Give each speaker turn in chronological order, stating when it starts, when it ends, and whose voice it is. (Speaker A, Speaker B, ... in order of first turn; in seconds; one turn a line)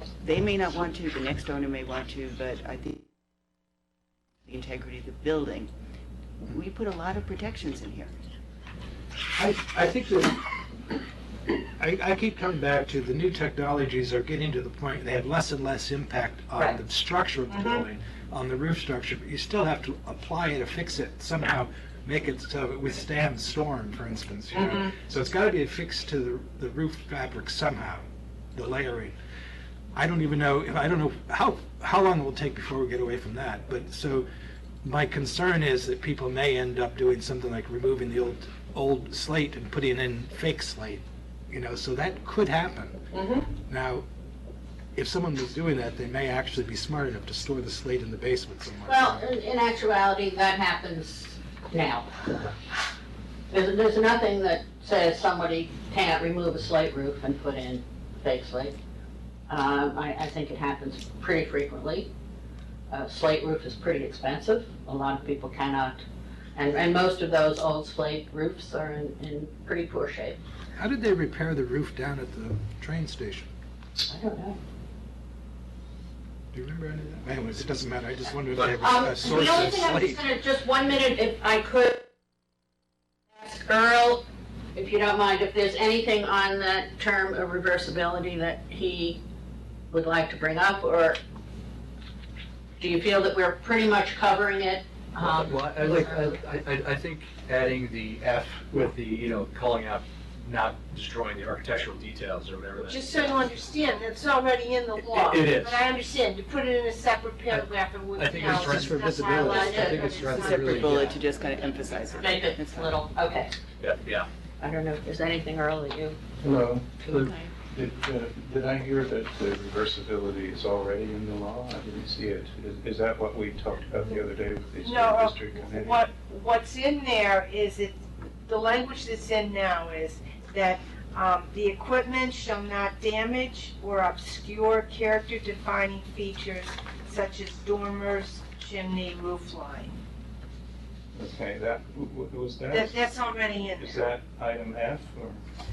Speaker A: 0.2-3.1
Speaker A: 4.5-5.7
Speaker A: 6.4-8.1
Speaker B: 9.3-10.5
Speaker B: 11.8-28.0
Speaker C: 17.5-17.8
Speaker B: 28.5-29.1
Speaker B: 29.9-34.3
Speaker B: 34.8-43.0
Speaker C: 43.1-43.5
Speaker B: 43.6-44.0
Speaker B: 44.9-49.2
Speaker C: 48.9-52.2
Speaker C: 53.5-58.8
Speaker C: 59.5-62.1
Speaker C: 62.9-66.0
Speaker C: 66.5-70.4
Speaker B: 70.8-73.5
Speaker C: 74.1-74.6
Speaker B: 76.5-80.2
Speaker C: 78.8-82.0
Speaker C: 83.3-89.2
Speaker C: 89.9-91.2
Speaker C: 92.8-96.4
Speaker D: 95.2-103.6
Speaker E: 102.8-112.0
Speaker D: 105.0-105.9
Speaker D: 107.5-111.2
Speaker C: 109.4-110.1
Speaker A: 110.3-113.0
Speaker C: 112.2-113.5
Speaker D: 113.8-114.3
Speaker C: 114.6-116.2
Speaker F: 116.4-126.1
Speaker C: 117.1-117.3
Speaker E: 124.8-139.9
Speaker F: 141.1-145.4
Speaker E: 142.7-144.1